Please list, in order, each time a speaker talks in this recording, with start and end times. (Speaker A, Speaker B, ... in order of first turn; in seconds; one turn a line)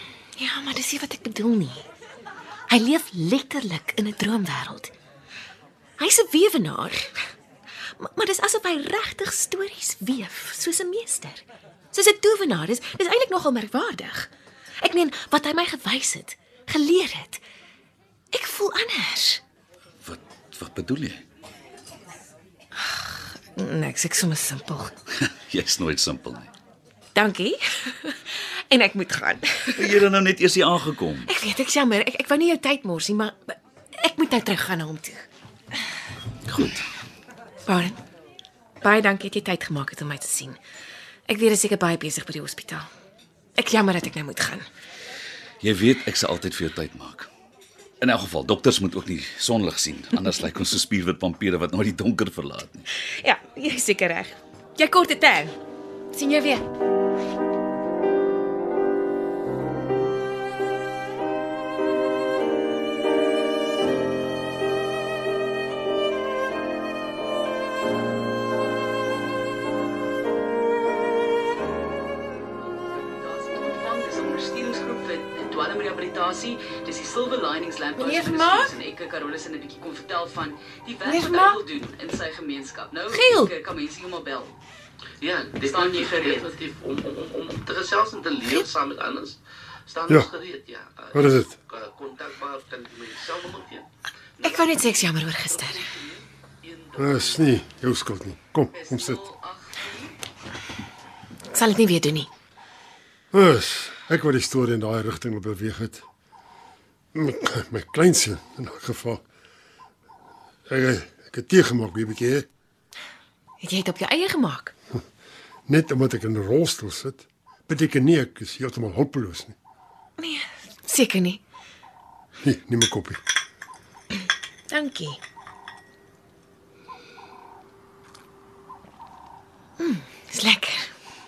Speaker A: 0.4-1.9
Speaker A: 2.7-4.9
Speaker A: 6.0-7.2
Speaker A: 8.0-14.3
Speaker A: 14.8-17.4
Speaker A: 18.3-19.4
Speaker B: 20.0-21.2
Speaker A: 22.8-24.9
Speaker B: 25.5-26.5
Speaker A: 27.1-29.9
Speaker B: 29.8-31.3
Speaker A: 31.3-35.3
Speaker A: 37.7-38.0
Speaker A: 38.8-40.6
Speaker A: 41.3-42.9
Speaker A: 43.6-44.7
Speaker B: 45.6-47.3
Speaker B: 48.0-52.9
Speaker A: 53.1-55.5
Speaker A: 56.1-56.6
Speaker C: 72.6-84.5
Speaker A: 78.0-78.7
Speaker A: 81.0-81.6
Speaker A: 83.1-83.5
Speaker D: 85.2-93.9
Speaker C: 85.6-86.6
Speaker E: 91.1-91.5
Speaker A: 94.4-95.9
Speaker D: 95.6-97.4
Speaker E: 97.0-99.2
Speaker C: 98.7-100.1
Speaker A: 101.5-102.3
Speaker E: 103.3-106.0
Speaker E: 107.1-109.2
Speaker E: 110.7-112.5
Speaker A: 113.6-114.7
Speaker E: 115.7-119.6
Speaker A: 120.2-121.4
Speaker E: 122.4-123.2
Speaker A: 124.7-125.2
Speaker A: 129.8-130.9